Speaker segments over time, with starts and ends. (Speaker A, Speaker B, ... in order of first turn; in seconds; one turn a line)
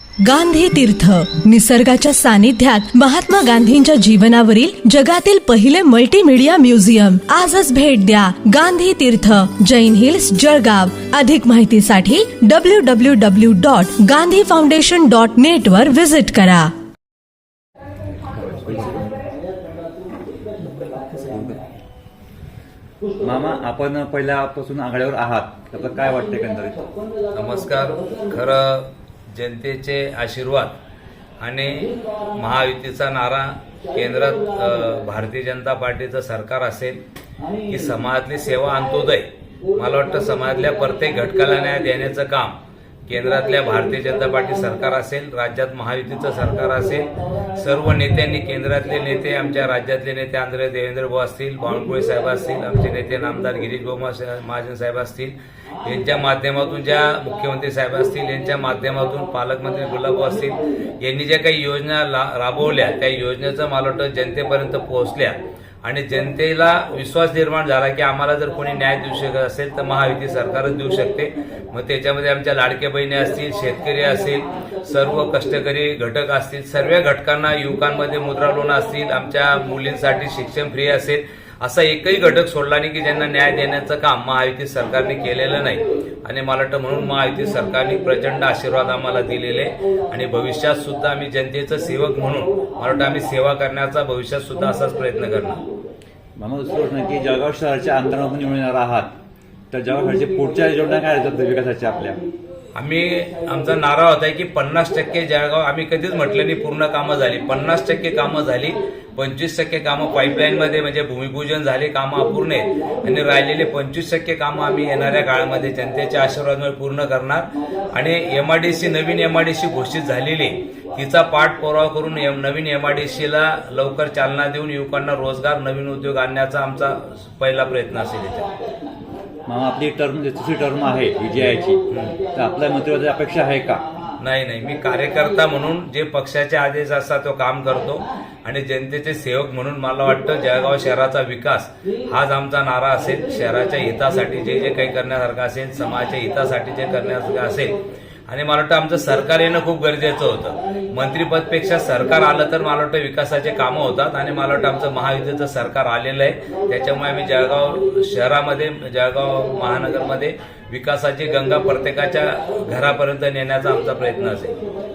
Speaker A: 0.2-16.7
Speaker B: 18.4-19.1
Speaker B: 21.1-21.6
Speaker B: 23.2-26.8
Speaker C: 27.3-30.8
Speaker C: 31.4-37.0
Speaker C: 37.7-95.6
Speaker B: 96.4-99.1
Speaker B: 99.7-102.2
Speaker C: 102.8-128.5
Speaker B: 129.5-131.8
Speaker C: 131.9-132.2
Speaker B: 132.3-133.8
Speaker C: 134.2-147.8
Speaker C: 148.3-164.6